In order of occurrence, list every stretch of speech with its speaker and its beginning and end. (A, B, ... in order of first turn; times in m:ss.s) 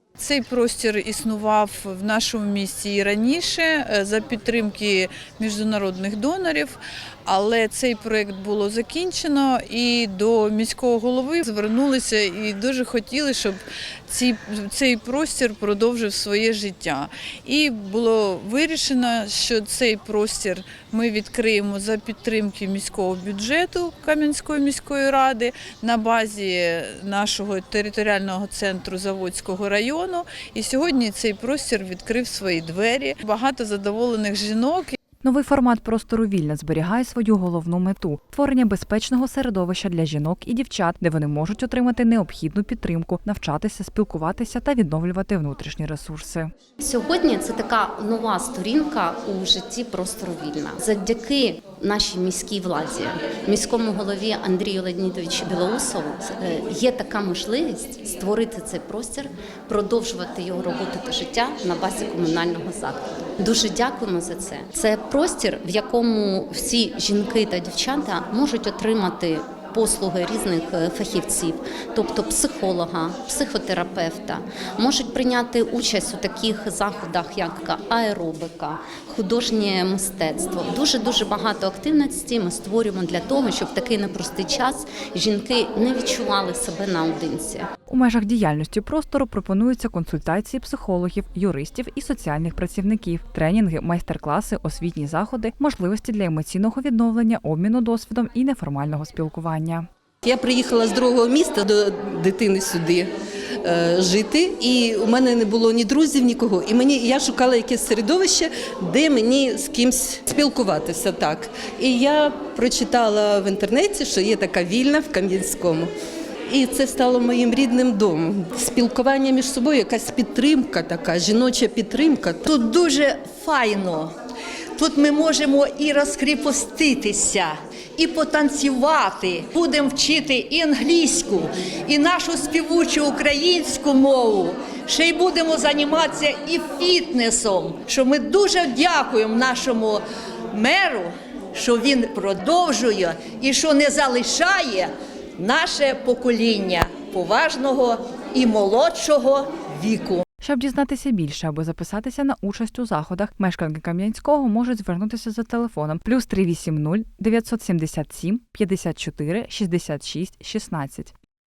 0:00.2-0:35.0 A
0:35.2-0:46.5 B
0:46.8-1:27.7 C
1:27.9-1:39.9 B
1:40.2-1:43.1 D
1:43.6-1:55.9 D
1:56.5-2:02.5 D
2:02.4-2:04.1 E
2:04.8-2:30.2 E
2:30.4-2:41.1 B